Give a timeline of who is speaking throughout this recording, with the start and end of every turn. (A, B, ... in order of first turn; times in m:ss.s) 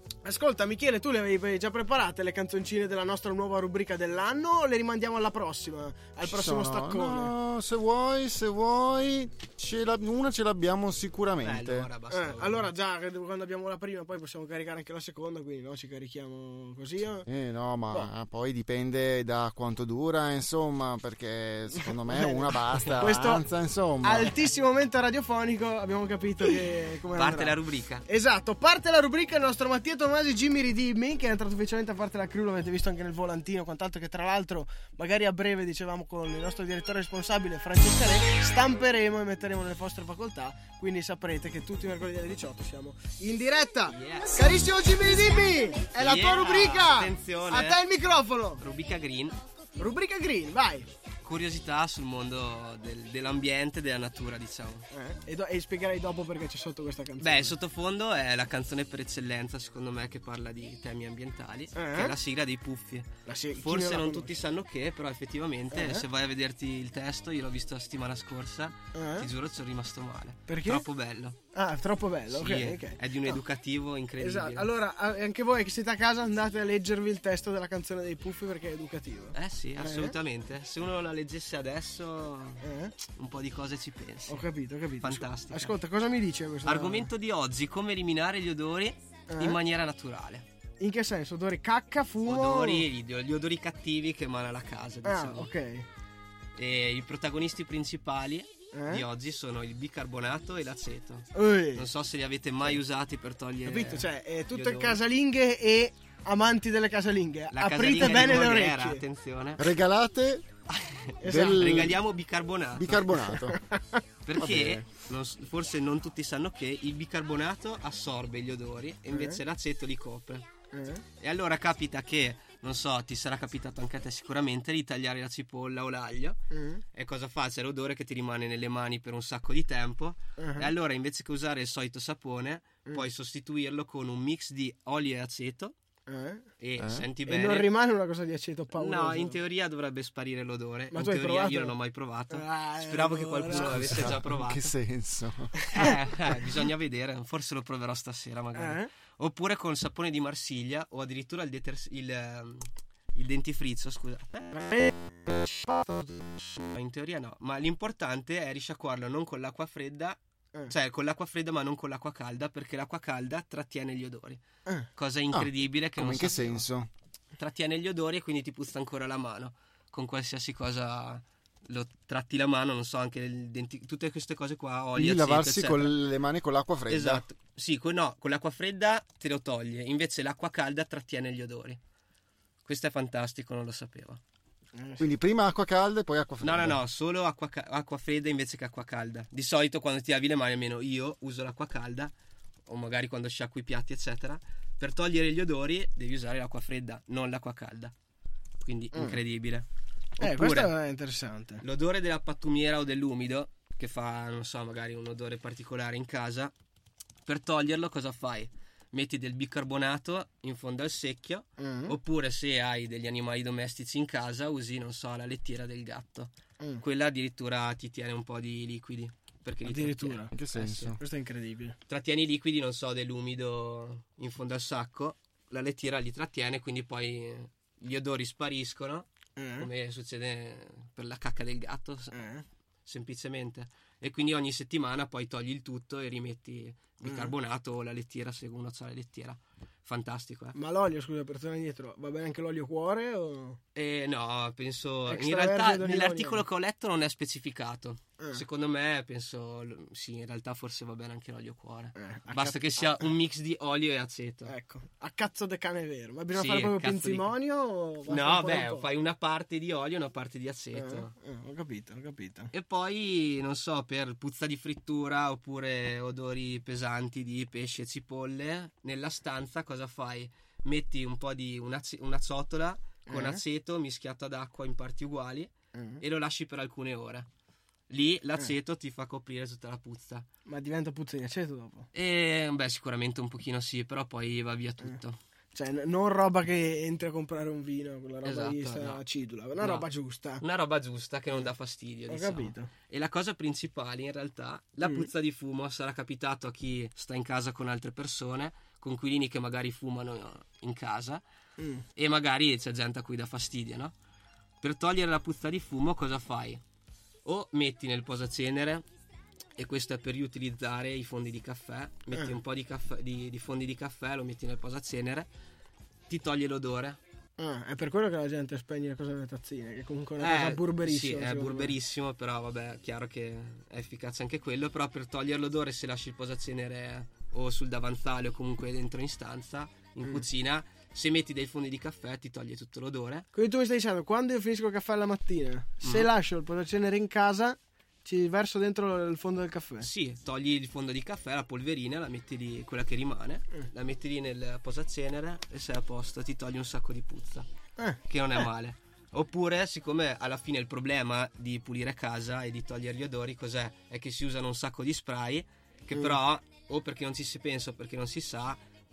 0:00.2-0:07.3 A
0:06.2-0:11.9 B
0:11.4-0:12.7 C
0:12.1-0:17.3 A
0:17.2-0:24.3 B
0:21.7-0:23.4 A
0:22.7-0:23.4 C
0:24.0-0:48.6 A
0:27.2-0:28.0 C
0:43.9-0:44.4 C
0:45.9-0:47.8 C
0:48.6-0:49.4 C
0:49.8-0:50.9 A
0:51.2-0:54.9 C
0:54.9-0:57.5 A
0:57.2-1:11.4 C
1:01.7-1:02.1 A
1:03.2-1:04.4 A
1:05.7-1:06.0 A
1:08.9-1:09.3 A
1:10.5-1:10.9 A
1:11.5-1:13.4 A
1:12.3-1:14.7 C
1:14.2-1:20.2 A
1:19.3-1:24.5 C
1:22.6-1:22.9 A
1:24.3-1:27.1 A
1:25.0-1:25.8 C
1:26.6-1:30.4 C
1:29.3-1:29.6 A
1:30.8-1:32.9 A
1:32.2-1:35.5 C
1:35.0-1:35.8 A
1:36.6-1:45.0 C
1:38.7-1:39.0 A
1:41.3-1:41.9 A
1:43.6-1:49.0 A
1:47.5-1:49.6 C
1:49.6-1:50.5 B
1:50.7-1:53.3 C
1:51.2-1:51.9 A
1:51.2-1:52.0 B
1:52.7-1:53.6 B
1:53.5-1:54.0 A
1:54.2-2:00.4 C
1:54.3-1:54.9 B
1:59.1-1:59.4 A
2:00.7-2:01.0 A
2:01.2-2:06.4 C
2:06.5-2:06.8 A
2:06.9-2:15.7 C
2:10.4-2:10.7 A
2:16.1-2:16.5 A
2:16.6-2:17.7 C
2:16.8-2:17.0 B
2:17.2-2:19.4 A
2:18.7-2:24.7 C
2:20.9-2:21.7 A
2:22.3-2:24.1 A
2:23.5-2:25.9 B
2:25.6-2:25.9 A
2:25.7-2:34.5 C
2:28.5-2:28.9 A
2:34.5-2:36.4 A
2:36.6-2:40.2 C
2:40.7-2:44.4 C
2:44.9-2:46.6 C
2:45.3-2:46.9 B
2:47.4-2:56.0 C
2:55.0-2:57.2 B
2:56.9-3:01.8 C
3:02.6-3:04.2 C
3:04.7-3:05.1 A
3:05.0-3:06.8 B
3:06.4-3:12.1 C
3:12.7-3:17.9 C
3:18.6-3:19.6 C
3:18.9-3:19.2 A
3:20.2-3:20.7 C
3:20.2-3:21.6 A
3:21.6-3:26.5 C
3:27.2-3:41.0 C
3:31.6-3:31.9 A
3:39.6-3:40.3 A
3:40.3-3:41.0 B
3:41.0-3:41.8 A
3:41.9-3:49.1 C
3:49.4-3:49.7 A
3:49.6-3:52.2 C
3:52.1-3:52.4 A
3:52.8-4:00.6 C
3:57.0-3:57.3 A
4:00.5-4:03.6 A
4:03.7-4:14.5 C
4:05.1-4:06.4 A
4:08.2-4:08.4 A
4:12.0-4:13.1 A
4:14.5-4:18.9 A
4:16.3-4:17.3 C
4:18.1-4:21.1 C
4:20.7-4:22.5 A
4:22.5-4:37.3 C
4:33.1-4:33.4 A
4:35.7-4:36.0 A
4:37.9-4:40.3 C
4:40.4-4:41.9 A
4:41.9-4:45.2 C
4:45.5-4:50.4 A
4:48.2-4:49.0 C
4:49.6-4:49.9 C
4:50.4-5:01.2 C
4:52.1-4:52.7 A
4:54.8-4:55.1 A
5:01.6-5:01.8 A
5:02.0-5:03.9 C
5:04.6-5:06.6 C
5:07.2-5:08.8 C
5:09.6-5:15.3 C
5:16.1-5:17.0 C
5:17.4-5:21.7 A
5:20.2-5:33.3 C
5:33.3-5:39.9 A
5:35.8-5:36.1 C
5:39.8-5:47.5 C
5:48.1-5:58.6 C